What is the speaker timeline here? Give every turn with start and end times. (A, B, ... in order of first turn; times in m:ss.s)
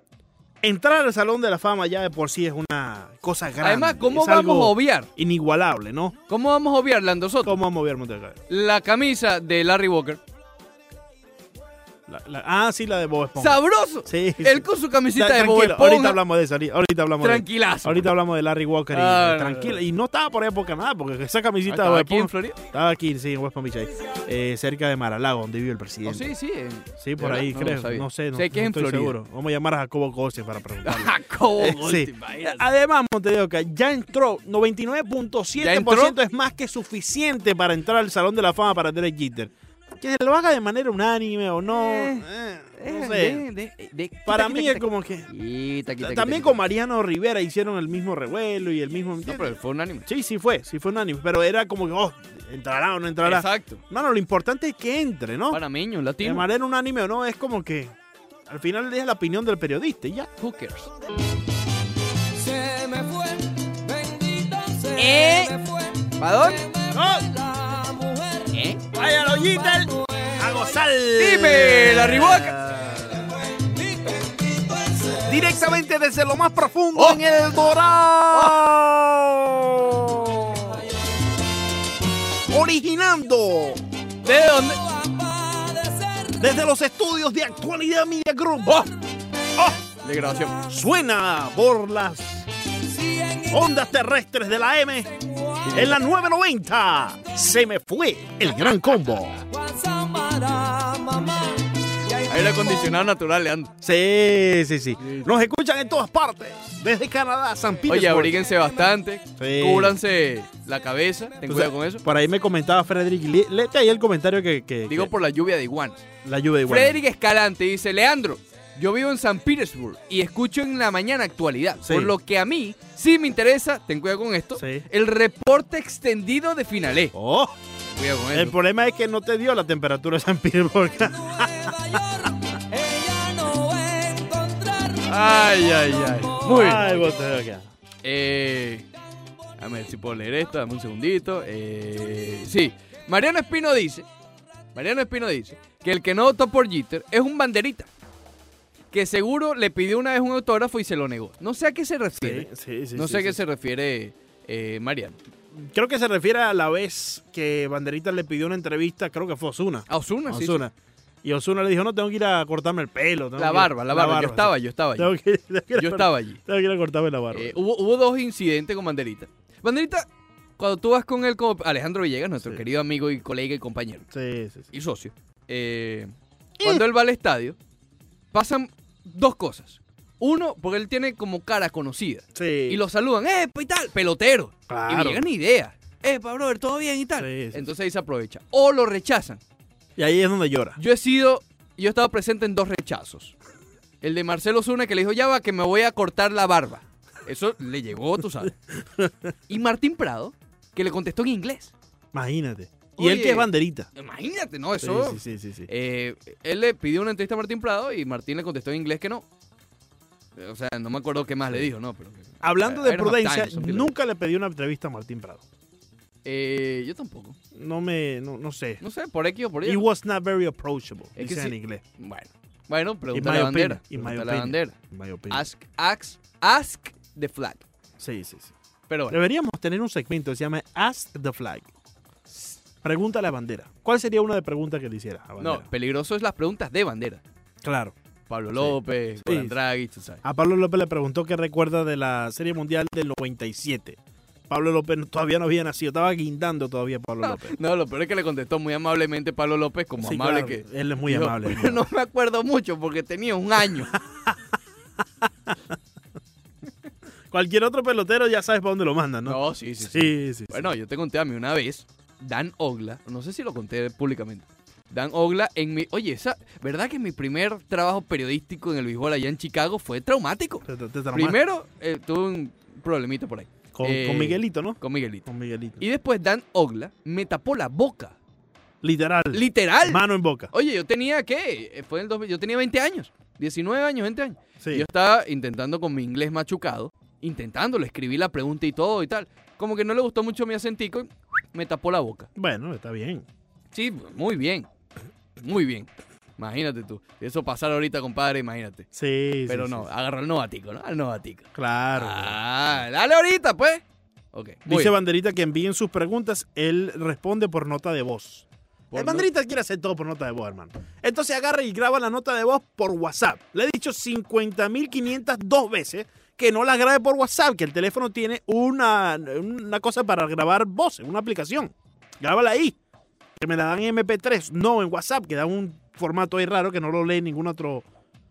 0:00.6-0:06.2 A
0:03.6-0:05.1 B
0:06.3-0:07.6 B
0:07.4-0:08.4 A
0:08.5-0:10.2 B
0:12.1-0:26.3 A
0:13.4-0:16.2 B
0:17.2-0:18.1 B
0:18.9-0:19.8 B
0:21.7-0:22.6 B
0:26.0-0:29.2 B
0:27.0-0:43.4 A
0:30.8-0:32.6 B
0:35.6-0:36.2 B
0:41.7-0:46.6 B
0:44.2-0:45.3 A
0:46.0-0:55.6 A
0:49.2-0:50.1 B
0:53.2-0:53.8 B
0:55.5-0:56.5 B
0:56.2-0:57.9 A
0:58.5-1:00.3 A
1:00.4-1:00.9 B
1:02.3-1:10.7 C
1:05.0-1:05.6 B
1:06.2-1:06.6 B
1:06.9-1:07.3 A
1:08.5-1:08.8 B
1:08.9-1:13.3 A
1:11.2-1:12.6 B
1:13.6-1:15.2 C
1:15.2-1:20.8 A
1:17.0-1:17.2 B
1:18.3-1:18.6 B
1:22.4-1:23.8 A
1:24.2-1:24.8 B
1:24.3-1:26.4 C
1:26.4-1:28.9 A
1:30.0-1:30.6 B
1:30.7-1:32.4 A
1:32.8-1:33.7 C
1:33.5-1:35.1 A
1:35.2-1:35.9 C
1:35.6-1:36.0 B
1:35.7-1:39.4 A
1:39.5-1:42.9 C
1:42.2-1:43.7 B
1:43.8-1:48.4 A
1:47.9-1:52.0 B
1:49.4-1:50.0 A
1:51.4-1:55.1 A
1:54.9-1:56.0 B
1:56.2-1:57.0 A
1:56.6-2:07.1 B
2:01.8-2:02.1 A
2:04.6-2:04.8 A
2:07.1-2:07.5 A
2:07.9-2:08.6 B
2:08.3-2:12.0 A
2:11.2-2:17.0 C
2:15.0-2:16.8 B
2:16.4-2:17.7 A
2:18.0-2:18.9 B
2:19.6-2:24.1 B
2:24.7-2:27.9 B
2:28.9-2:35.2 B
2:32.2-2:33.4 A
2:35.5-2:40.7 A
2:39.9-2:40.6 B
2:41.2-2:47.6 A
2:43.4-2:45.1 B
2:45.7-2:46.4 B
2:47.3-2:50.1 B
2:50.6-2:54.0 B
2:54.1-2:54.7 A
2:54.7-2:57.6 B
2:56.6-2:56.8 A
2:58.3-3:09.4 B
3:02.3-3:02.8 A
3:04.7-3:05.2 A
3:07.2-3:07.7 A
3:10.0-3:10.8 A
3:10.8-3:13.3 B
3:14.0-3:18.5 B
3:19.5-3:21.7 B
3:22.1-3:23.9 A
3:23.0-3:29.2 B
3:24.8-3:25.7 A
3:30.4-3:33.9 B
3:32.4-3:35.4 A
3:36.2-3:37.4 B
3:37.5-3:38.8 A
3:38.8-3:39.8 B
3:39.6-3:41.8 A
3:41.2-3:44.8 B
3:43.1-3:45.4 A
3:45.3-3:47.6 B
3:48.0-3:48.5 A
3:48.9-3:49.2 B
3:49.1-3:51.7 A
3:52.8-3:55.7 A
3:55.4-3:57.2 B
3:57.6-3:57.9 A
3:58.3-4:00.2 B
3:58.6-3:59.5 A
4:00.2-4:04.0 A
4:04.5-4:07.6 A
4:07.2-4:14.0 B
4:10.0-4:11.8 A
4:13.9-4:14.4 A
4:17.3-4:20.7 A
4:19.2-4:35.3 B
4:30.6-4:31.4 A
4:33.7-4:35.8 A
4:35.8-4:38.2 B
4:38.8-4:40.5 A
4:39.3-4:52.3 B
4:44.6-4:44.8 A
4:52.4-4:53.2 A
4:53.7-4:54.7 B
4:55.4-4:58.8 B
4:58.9-4:59.8 A
4:59.5-5:04.9 B
5:01.5-5:02.4 A
5:04.6-5:22.8 A
5:08.9-5:09.3 B
5:23.4-5:27.8 A